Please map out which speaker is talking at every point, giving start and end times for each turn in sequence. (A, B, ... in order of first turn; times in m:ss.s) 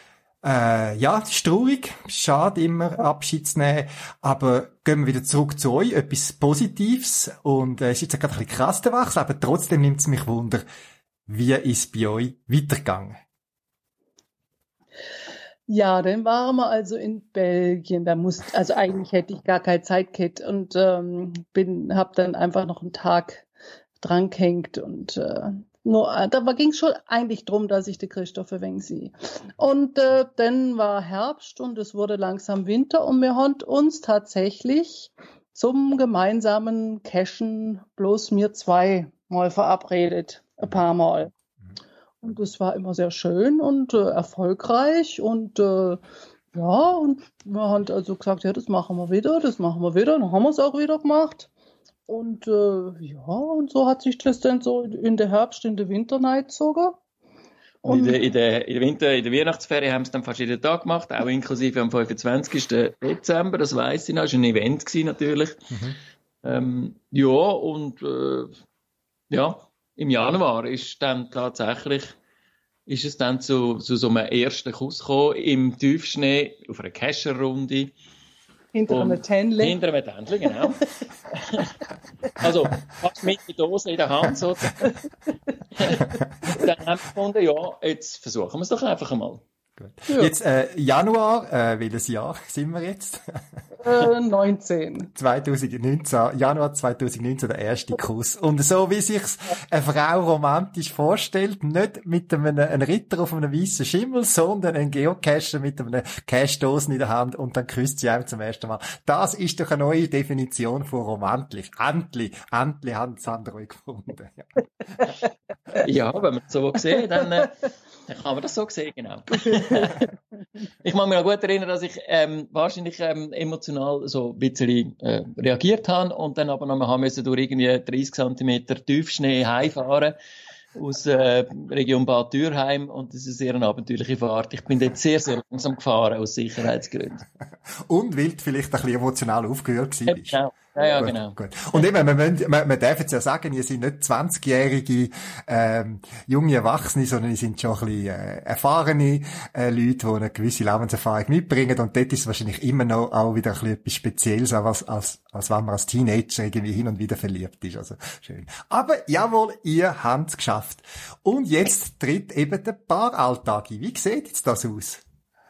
0:00.4-0:10.6 A
0:11.3-0:13.2 A
0:15.7-0:23.4 B
0:24.0-0:41.3 B
0:42.2-0:46.0 B
0:46.5-0:51.5 B
0:52.1-0:57.0 B
0:57.8-0:58.2 B
0:57.8-1:05.6 C
1:05.7-1:06.0 A
1:06.4-1:08.5 C
1:09.3-1:12.1 C
1:12.9-1:17.9 C
1:18.7-1:19.8 B
1:18.9-1:21.7 C
1:22.4-1:24.9 C
1:25.7-1:29.4 C
1:29.8-1:33.4 A
1:33.8-1:35.1 B
1:35.1-1:54.4 A
1:55.8-2:00.1 C
1:59.3-2:00.0 B
2:00.8-2:10.1 C
2:10.7-2:17.2 C
2:17.9-2:20.4 A
2:20.1-2:21.4 C
2:21.0-2:45.0 A